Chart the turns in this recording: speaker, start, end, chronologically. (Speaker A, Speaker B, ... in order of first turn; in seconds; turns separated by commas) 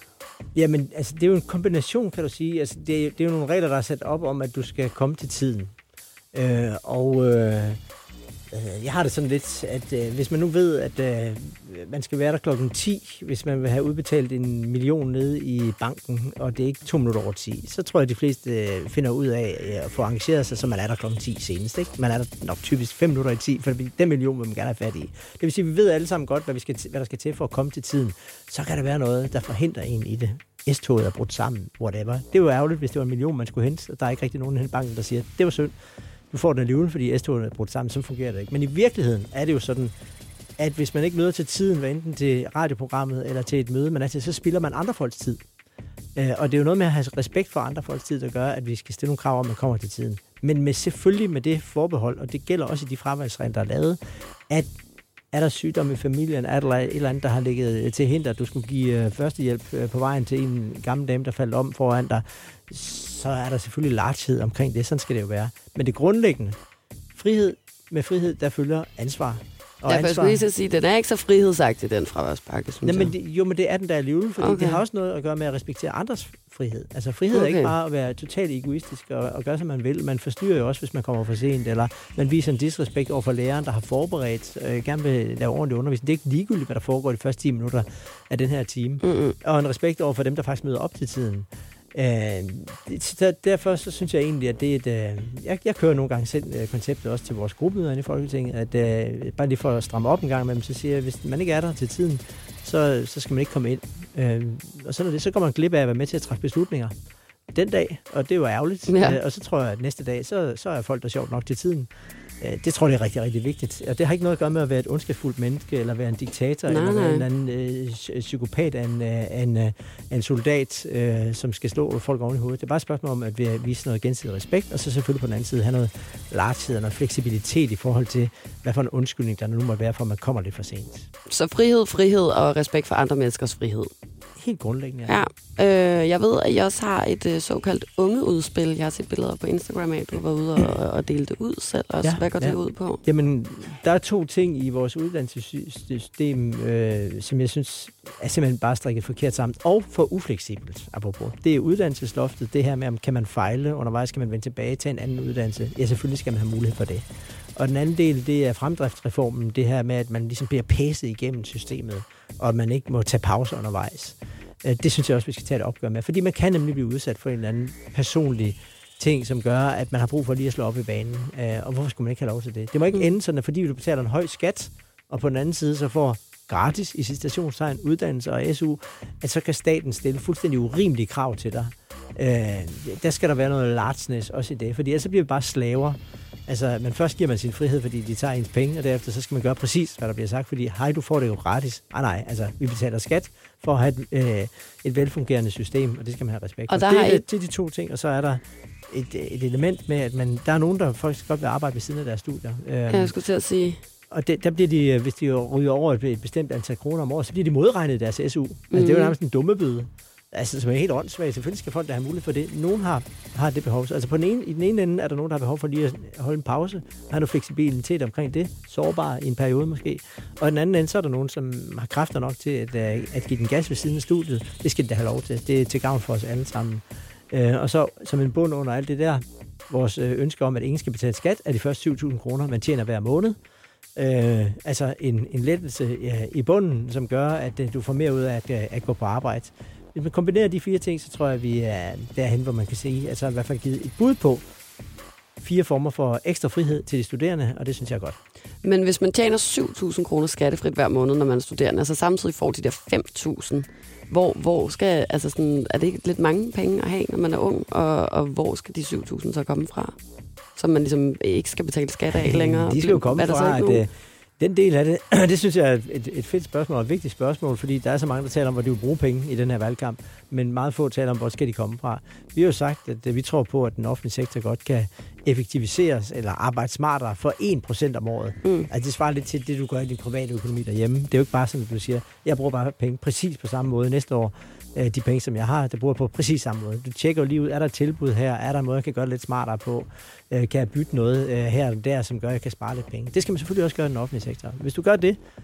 Speaker A: 0.6-5.7, Speaker A: 6.3-7.8, Speaker A: 8.5-35.7, Speaker A: 36.3-39.9, Speaker A: 40.6-45.4, Speaker A: 46.1-54.7, Speaker A: 55.3-66.6, Speaker A: 67.1-70.4, Speaker B: 69.8-73.1, Speaker A: 72.8-106.9, Speaker B: 74.4-74.8, Speaker B: 77.3-77.7, Speaker B: 89.0-89.3, Speaker A: 107.5-111.9, Speaker B: 108.9-109.2, Speaker A: 112.4-131.1, Speaker B: 116.7-117.3, Speaker B: 131.3-133.9, Speaker A: 134.4-135.2, Speaker B: 135.1-143.0, Speaker A: 142.0-203.1, Speaker B: 196.7-197.2, Speaker B: 202.9-203.8, Speaker A: 204.1-233.4, Speaker B: 208.7-209.2, Speaker A: 233.9-244.4, Speaker A: 245.4-248.2, Speaker B: 248.6-259.9, Speaker B: 260.6-263.8, Speaker A: 262.1-295.2, Speaker B: 278.4-278.7